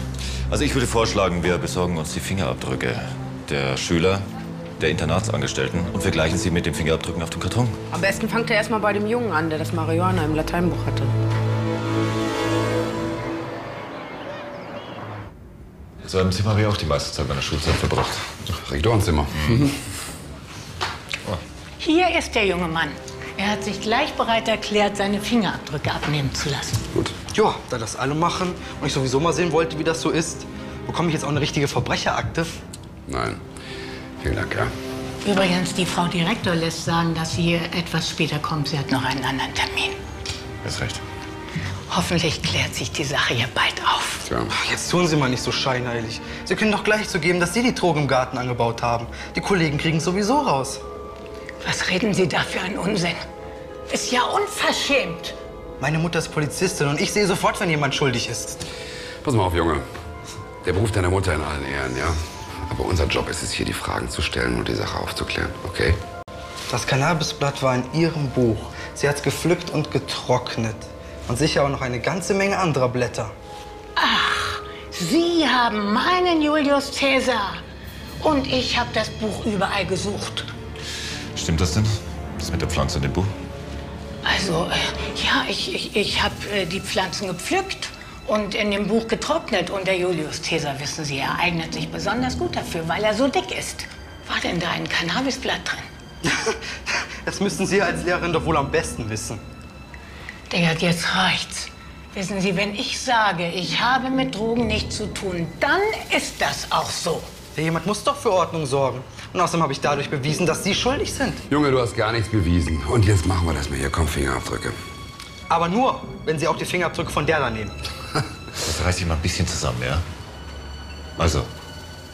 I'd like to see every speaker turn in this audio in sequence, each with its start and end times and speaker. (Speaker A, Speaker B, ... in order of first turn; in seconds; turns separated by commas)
Speaker A: 0.5-4.3, Speaker A: 4.8-7.8, Speaker B: 7.9-11.1, Speaker A: 16.0-18.3, Speaker C: 18.4-19.7, Speaker D: 21.8-26.8, Speaker E: 27.3-32.5, Speaker C: 33.1-33.4, Speaker C: 34.2-34.7, Speaker D: 35.2-40.0, Speaker A: 40.6-41.0, Speaker D: 41.9-44.2, Speaker C: 44.2-44.5, Speaker E: 44.5-50.8, Speaker D: 51.6-53.2, Speaker D: 53.9-55.4, Speaker E: 55.8-58.6, Speaker C: 59.2-59.8, Speaker C: 60.6-62.2, Speaker C: 62.7-66.0, Speaker E: 66.7-73.3, Speaker D: 74.0-77.6, Speaker D: 78.2-80.5, Speaker A: 81.3-83.3, Speaker D: 84.2-95.9, Speaker E: 96.2-99.4, Speaker D: 100.5-107.3, Speaker E: 107.5-111.4, Speaker C: 111.5-114.8, Speaker E: 115.5-117.8, Speaker A: 118.6-120.0, Speaker A: 121.2-121.5